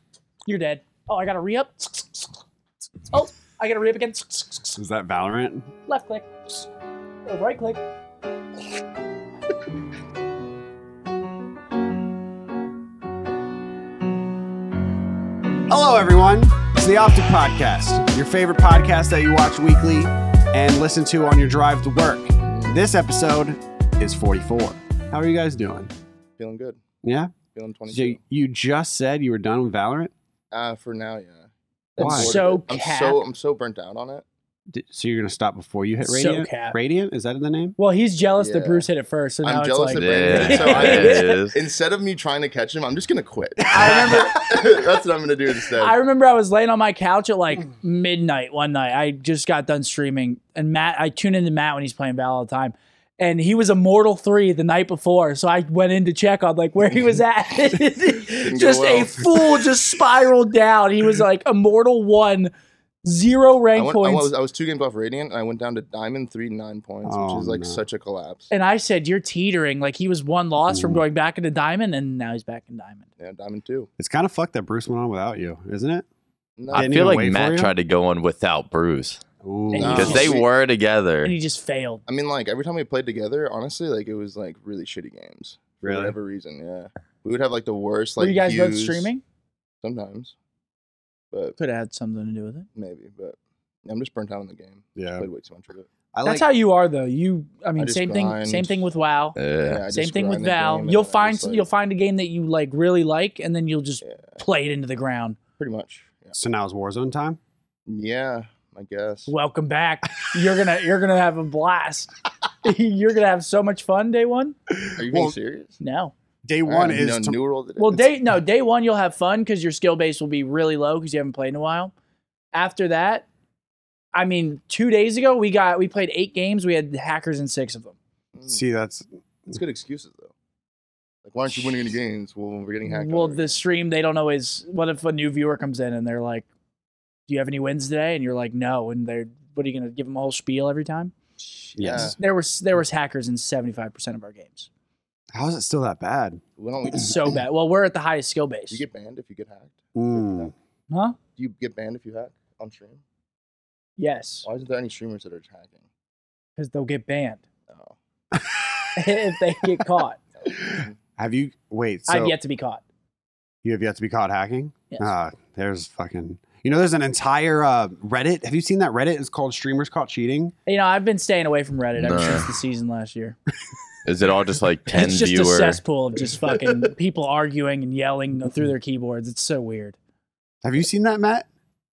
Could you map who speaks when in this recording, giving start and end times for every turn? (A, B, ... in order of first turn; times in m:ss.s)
0:00.5-0:02.4 A
0:03.1-0:04.8 A
0:04.8-0:05.7 B
0:05.9-0:06.6 A
0:07.3-0:07.8 A
0:15.7-0:25.9 B
0:22.4-0:22.8 C
0:26.4-0:26.8 C
0:27.0-0:27.4 B
0:27.5-0:28.2 C
0:27.9-0:30.1 B
0:30.5-0:34.2 C
0:32.0-0:32.3 B
0:32.0-0:33.2 A
0:34.7-0:37.8 B
0:36.0-0:36.8 A
0:37.8-0:41.4 A
0:38.4-0:38.9 C
0:39.4-0:46.0 C
0:39.9-0:41.6 D
0:43.7-0:44.3 B
0:43.7-0:44.4 A
0:45.8-1:02.5 A
0:58.4-0:59.5 C
1:03.0-1:04.3 A
1:03.7-1:08.5 C
1:07.0-1:07.8 B
1:08.5-1:13.0 A
1:10.7-1:11.0 B
1:13.2-1:13.9 C
1:14.0-1:16.0 B
1:16.6-1:17.0 C
1:16.7-1:17.7 B
1:16.7-1:19.2 D
1:19.4-1:20.3 B
1:19.7-1:20.4 A
1:19.8-1:20.5 C
1:19.9-1:21.4 D
1:21.2-1:22.0 A
1:22.1-1:29.1 C
1:25.8-1:26.2 B
1:28.2-1:29.2 A
1:29.8-1:30.3 C
1:31.3-1:31.6 C
1:31.6-1:32.7 A
1:32.8-1:35.9 C
1:35.0-1:35.3 B
1:36.1-1:36.5 B
1:36.2-1:39.4 A
1:37.8-1:38.8 C
1:39.4-1:39.8 D
1:39.6-1:41.7 C
1:39.9-1:45.4 A
1:44.0-1:44.4 C
1:45.6-1:46.4 C
1:46.4-1:47.4 B
1:47.9-1:49.3 C
1:49.3-1:52.1 A
1:52.6-1:54.6 A
1:55.0-1:55.8 C
1:55.0-1:55.4 B
1:55.8-1:56.1 A
1:56.4-1:57.4 B
1:56.7-1:58.1 C
1:57.8-2:01.9 A
2:02.5-2:03.3 A
2:04.2-2:08.0 A
2:08.4-2:08.6 C
2:08.5-2:09.0 B
2:09.5-2:10.3 C
2:11.2-2:13.5 C
2:12.8-2:16.5 A
2:17.3-2:21.1 A
2:21.8-2:22.2 B
2:21.8-2:22.2 C
2:21.8-2:24.7 A
2:25.3-2:26.4 B
2:26.6-2:27.4 C
2:26.9-2:28.8 A
2:28.7-2:30.5 C
2:30.0-2:30.5 B
2:30.9-2:31.2 A
2:31.4-2:33.0 C
2:34.0-2:34.5 A
2:34.4-2:35.9 C
2:36.6-2:37.4 A
2:37.7-2:38.0 C
2:38.3-2:38.9 B
2:39.0-2:40.2 A
2:40.4-2:41.0 C
2:40.5-2:42.4 B
2:42.1-2:42.8 A
2:43.6-2:50.5 B
2:50.7-2:53.4 A
2:52.0-2:52.5 D
2:54.0-2:55.8 D
2:54.9-3:00.0 A
3:00.6-3:01.5 B